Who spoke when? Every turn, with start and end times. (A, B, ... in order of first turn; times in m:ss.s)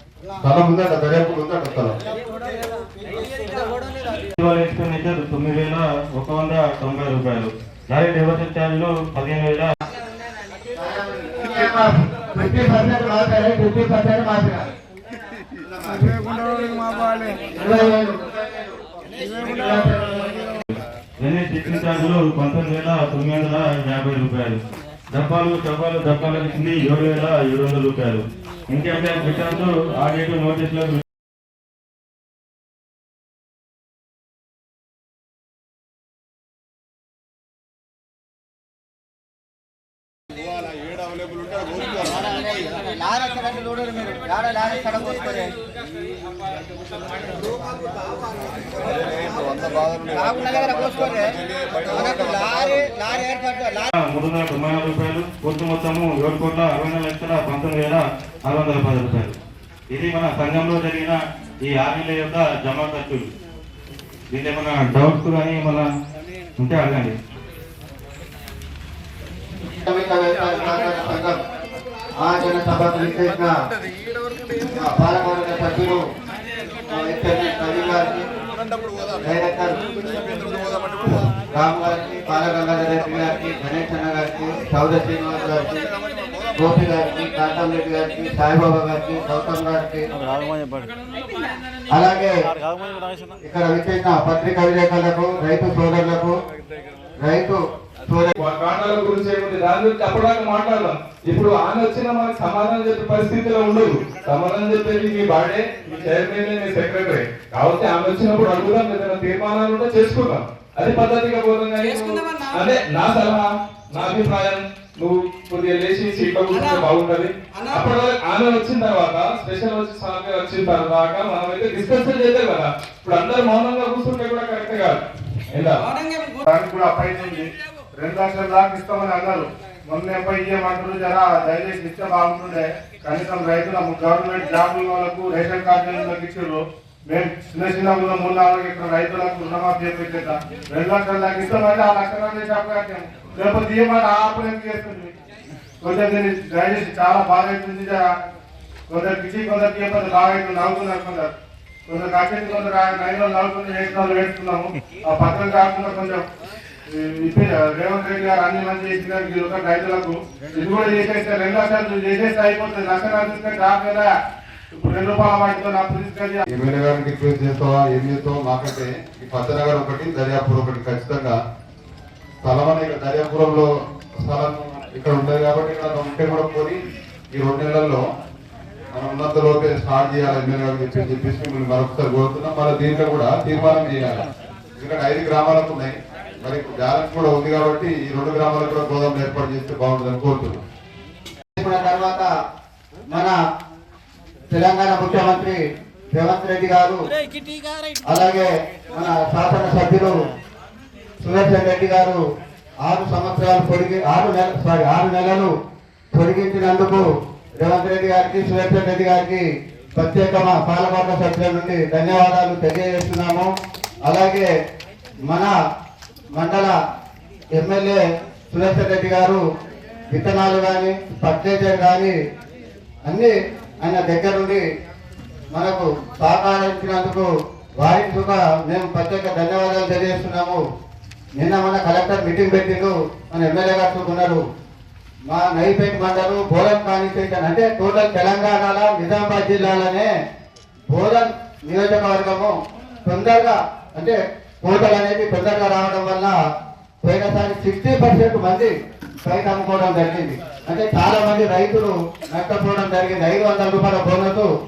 0:00.4-0:02.0 A
0:04.4-0:09.7 B
0:10.8-0:14.6 C
0:15.7-0:16.3 C
0:17.2-0:20.5 C
0:21.2-0:24.6 B
0:25.1-0:31.0 B
0:42.0-0:45.5 C
0:49.0-0:52.5 A
0:50.1-0:51.3 C
0:51.9-0:53.9 C
0:54.0-0:59.4 B
0:59.9-1:03.3 B
1:04.3-1:05.9 B
1:06.6-1:07.2 B
1:09.8-1:11.4 C
1:12.2-1:13.5 C
1:14.8-1:16.0 C
1:16.9-1:18.2 C
1:19.2-1:19.8 C
1:21.1-1:25.8 C
1:26.6-1:30.0 C
1:30.2-1:30.9 B
1:31.9-1:32.4 C
1:32.6-1:33.2 B
1:33.4-1:36.3 C
1:37.2-1:38.4 C
1:38.4-2:05.0 D
2:05.5-2:05.8 D
2:06.5-2:25.1 E
2:25.8-2:28.0 E
2:28.9-2:31.3 E
2:31.9-2:36.2 E
2:36.9-2:44.1 E
2:44.7-2:46.4 E
2:46.5-2:51.4 A
2:52.4-2:53.7 A
2:54.3-2:56.8 A
2:57.4-2:58.0 A
2:59.0-3:04.2 A
3:04.8-3:10.6 A
3:11.6-3:12.3 C
3:13.1-3:13.4 C
3:14.5-3:15.6 C
3:16.1-3:17.0 C
3:18.1-3:20.1 C
3:21.2-3:22.2 C
3:22.9-3:25.5 C
3:26.1-3:27.1 C
3:27.6-3:29.4 C
3:30.0-3:33.5 C
3:34.1-3:34.5 C
3:36.4-3:36.7 C
3:37.6-3:38.0 C
3:38.5-3:39.4 C
3:40.1-3:42.2 C
3:43.1-3:44.6 C
3:45.5-3:47.3 C
3:47.8-3:50.6 C
3:51.4-3:54.4 C
3:55.3-4:00.1 C
4:00.9-4:02.5 C
4:03.1-4:06.4 C
4:07.0-4:08.7 C
4:09.2-4:14.5 C